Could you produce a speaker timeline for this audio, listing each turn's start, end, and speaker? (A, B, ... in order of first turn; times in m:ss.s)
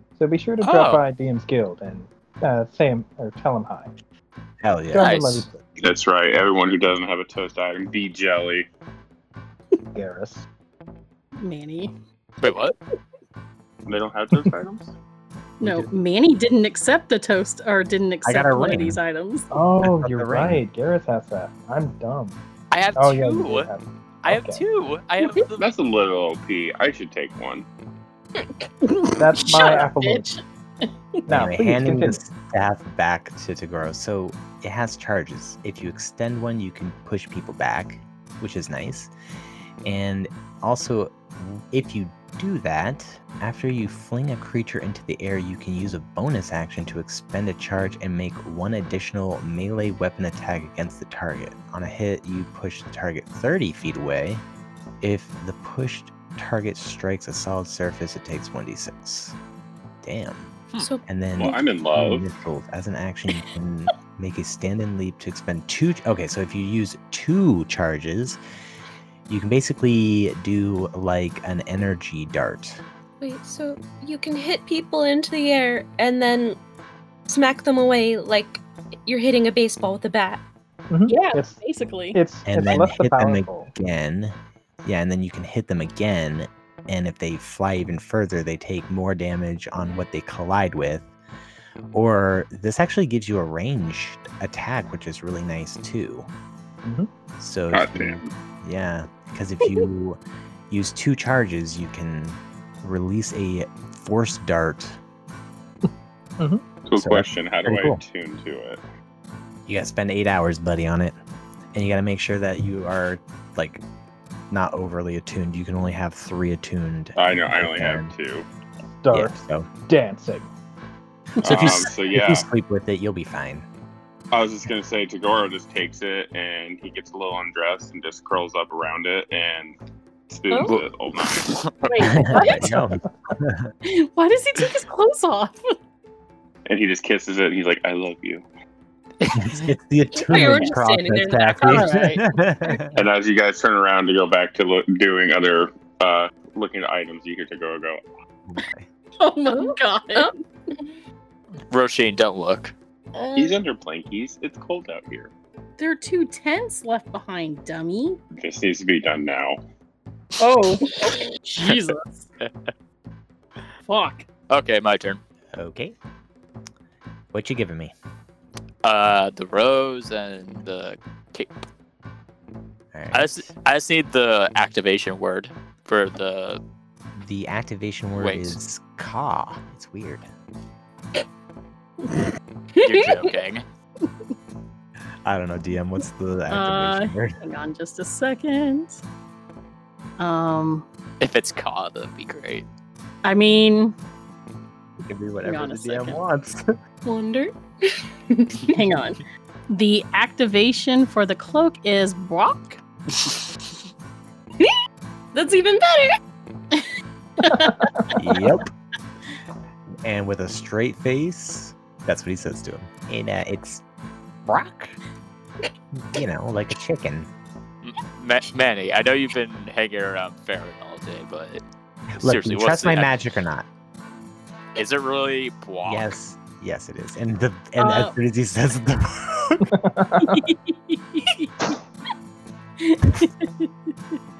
0:00.2-0:03.9 A
0:00.6-0:01.0 B
0:04.6-0:05.1 C
0:04.9-0:05.6 A
0:05.0-0:05.5 B
0:05.8-0:08.7 D
0:09.9-0:10.4 A
0:11.4-0:11.9 E
0:12.4-0:12.8 B
0:13.9-0:14.9 D
0:15.6-0:19.5 E
0:15.6-0:15.9 C
0:18.2-0:19.0 C
0:19.5-0:22.4 A
0:19.8-0:20.6 C
0:22.7-0:23.7 B
0:23.0-0:24.6 A
0:24.2-0:25.7 B
0:25.6-0:27.6 D
0:28.9-0:30.9 E
0:29.2-0:30.3 A
0:31.3-0:39.1 C
0:31.3-0:32.2 A
0:39.8-0:54.4 C
0:55.0-0:59.4 C
1:00.0-1:00.5 C
1:00.8-1:01.6 F
1:01.0-1:08.4 C
1:01.4-1:02.3 D
1:09.3-1:12.8 C
1:13.2-1:16.6 F
1:17.3-1:20.4 F
1:20.9-1:21.6 A
1:21.1-1:22.2 E
1:22.1-1:23.7 A
1:22.4-1:31.1 C
1:31.9-1:36.3 C
1:37.4-1:40.2 C
1:37.7-1:38.3 D
1:40.7-1:45.0 C
1:45.8-1:46.7 A
1:46.8-1:48.8 D
1:47.0-1:48.0 C
1:49.7-1:51.1 C
1:51.7-1:53.8 C
1:54.5-1:58.1 C
1:57.2-1:58.5 D
1:59.0-1:59.4 A
1:59.1-1:59.7 C
1:59.9-2:00.5 A
2:01.4-2:02.4 D
2:01.4-2:03.7 C
2:04.3-2:09.8 D
2:10.3-2:12.1 D
2:10.7-2:11.7 B
2:11.9-2:12.7 E
2:12.2-2:13.7 C
2:13.8-2:15.6 E
2:16.7-2:18.5 D
2:19.3-2:22.9 C
2:20.1-2:21.9 F
2:20.4-2:20.7 D
2:21.6-2:22.2 E
2:22.9-2:28.0 D
2:28.4-2:28.9 C
2:29.2-2:30.4 E
2:29.5-2:31.0 F
2:31.7-2:32.7 B
2:33.2-2:33.6 F
2:33.4-2:35.3 D
2:35.8-2:38.2 E
2:38.3-2:39.6 D
2:40.4-2:42.3 E
2:41.0-2:41.3 F
2:42.4-2:42.7 B
2:43.8-2:44.2 E
2:44.5-2:45.2 B
2:45.5-2:45.9 C
2:47.3-2:47.9 C
2:48.8-2:51.6 B
2:52.9-2:53.5 C
2:53.1-2:56.6 B
2:57.2-3:00.3 C
2:58.1-2:58.6 B
3:02.8-3:03.2 F
3:02.8-3:03.6 B
3:05.2-3:07.4 C
3:06.5-3:09.0 E
3:10.2-3:10.9 E
3:11.2-3:12.7 B
3:13.2-3:13.9 E
3:15.0-3:16.6 C
3:15.4-3:16.2 E
3:17.0-3:18.7 F
3:18.7-3:22.8 E
3:25.3-3:26.2 F
3:27.4-3:27.7 E
3:27.6-3:27.9 A
3:28.2-3:28.7 C
3:30.0-3:33.8 C
3:34.4-3:35.0 C
3:35.9-3:37.3 C
3:37.8-3:41.6 B
3:42.2-3:43.7 C
3:42.2-3:43.1 B
3:44.7-3:46.2 B
3:45.8-3:49.7 C
3:47.8-3:48.1 E
3:49.7-3:50.5 A
3:50.3-3:51.5 E
3:52.8-3:54.2 E